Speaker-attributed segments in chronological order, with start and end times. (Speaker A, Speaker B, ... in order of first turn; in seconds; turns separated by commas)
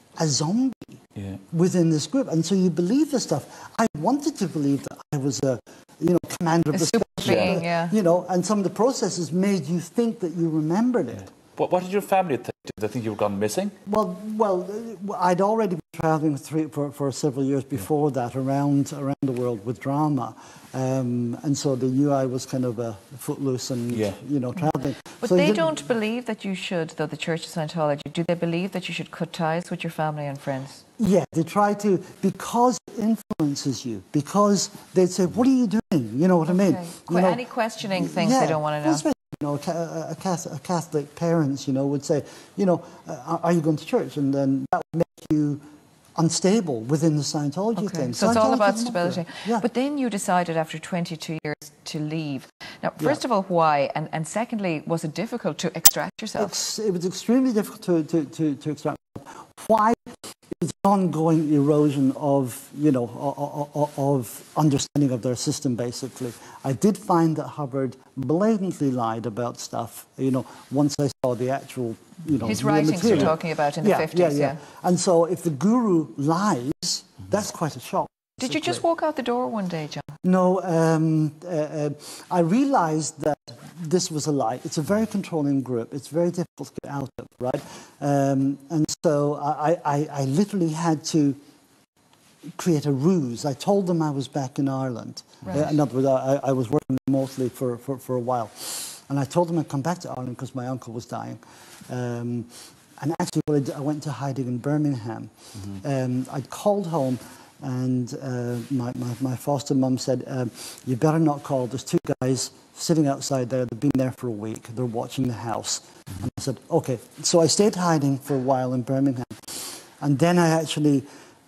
Speaker A: 0.2-1.0, Speaker A: 1.5-11.3, Speaker B: 6.7-7.9, Speaker C: 7.2-7.6, Speaker C: 11.6-13.7, Speaker A: 13.8-25.8, Speaker B: 25.2-30.8, Speaker A: 31.0-37.4, Speaker B: 36.5-39.0, Speaker A: 37.9-45.6, Speaker A: 46.1-49.6, Speaker B: 47.8-56.5, Speaker A: 56.4-60.0, Speaker A: 60.5-78.8, Speaker B: 72.4-74.6, Speaker B: 78.4-80.1, Speaker A: 80.2-91.4, Speaker A: 92.6-121.0